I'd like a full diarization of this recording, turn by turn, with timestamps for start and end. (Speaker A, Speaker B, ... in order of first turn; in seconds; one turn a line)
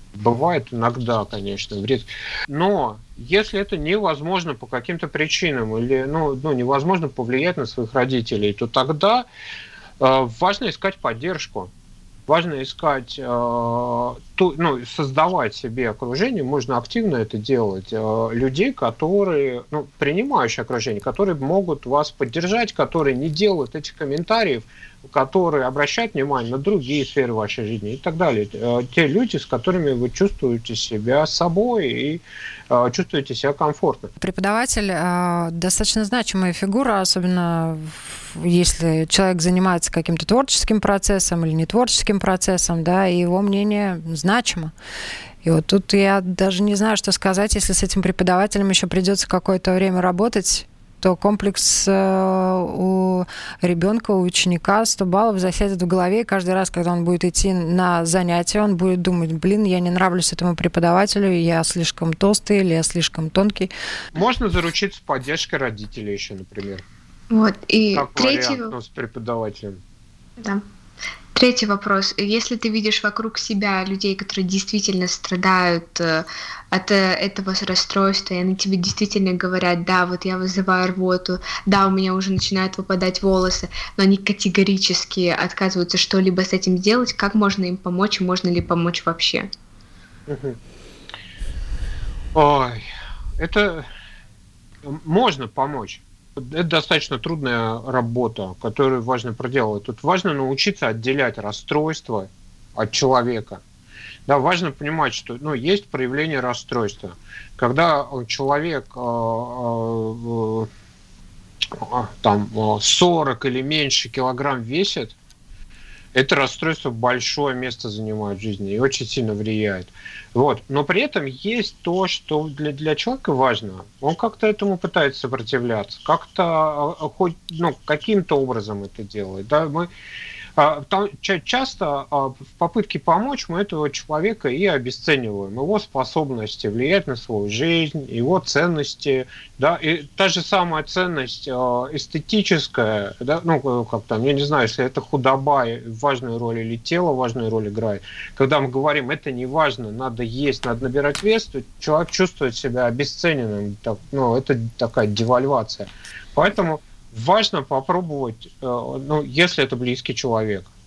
Speaker A: 0.1-9.3
Speaker A: 10.0-11.7
Speaker A: 12.3-34.1
Speaker B: 34.2-44.7
Speaker B: 45.4-63.7
Speaker A: 64.1-66.8
Speaker C: 67.3-68.7
Speaker A: 67.9-69.8
Speaker C: 71.3-89.5
Speaker A: 90.3-90.6
Speaker A: 92.3-92.9
Speaker A: 93.4-93.9
Speaker A: 94.8-103.6
Speaker A: 104.3-110.7
Speaker A: 111.7-115.2
Speaker A: 116.1-129.9
Speaker A: 130.6-160.7